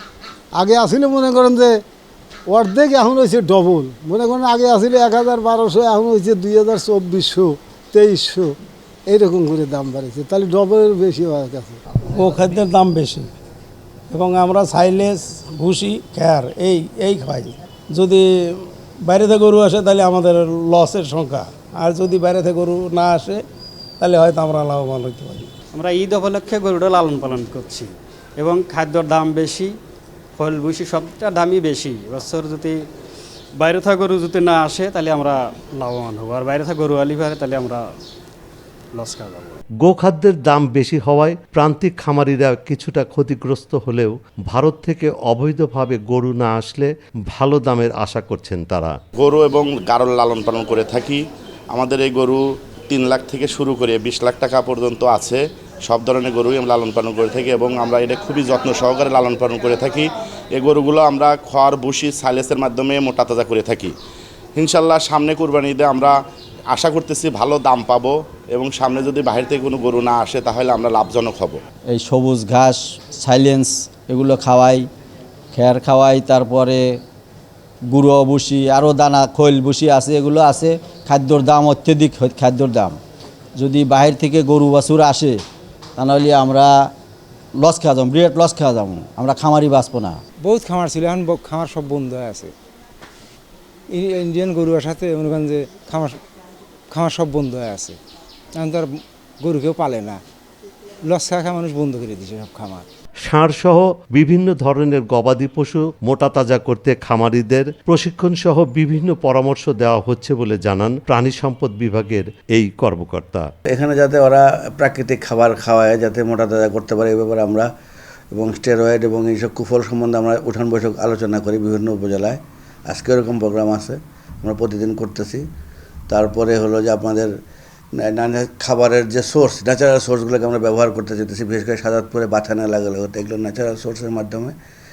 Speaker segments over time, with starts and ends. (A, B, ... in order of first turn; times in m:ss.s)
0:00.5-0:01.8 A
0:02.5-0:08.5 A
0:09.1-0:11.8 A
0:12.1-0:13.3 B
0:14.1-0:23.4 B
0:24.0-0:25.5 B
0:25.7-0:29.7 C
0:30.4-0:32.8 C
0:33.6-0:37.8 C
0:38.9-0:39.6 C
0:39.8-0:48.9 D
0:49.2-1:03.9 E
1:04.6-1:06.1 E
1:06.7-1:11.6 E
1:11.9-1:14.9 F
1:15.5-1:17.0 F
1:17.9-1:23.0 F
1:23.6-1:25.4 F
1:26.0-1:26.9 F
1:27.6-1:30.2 F
1:30.4-1:32.5 G
1:33.9-1:36.2 G
1:36.9-1:38.0 G
1:38.5-1:40.2 G
1:41.0-1:42.8 G
1:43.2-1:53.5 D
1:53.7-1:57.7 H
1:58.3-2:05.4 H
2:06.1-2:07.3 H
2:08.0-2:14.5 H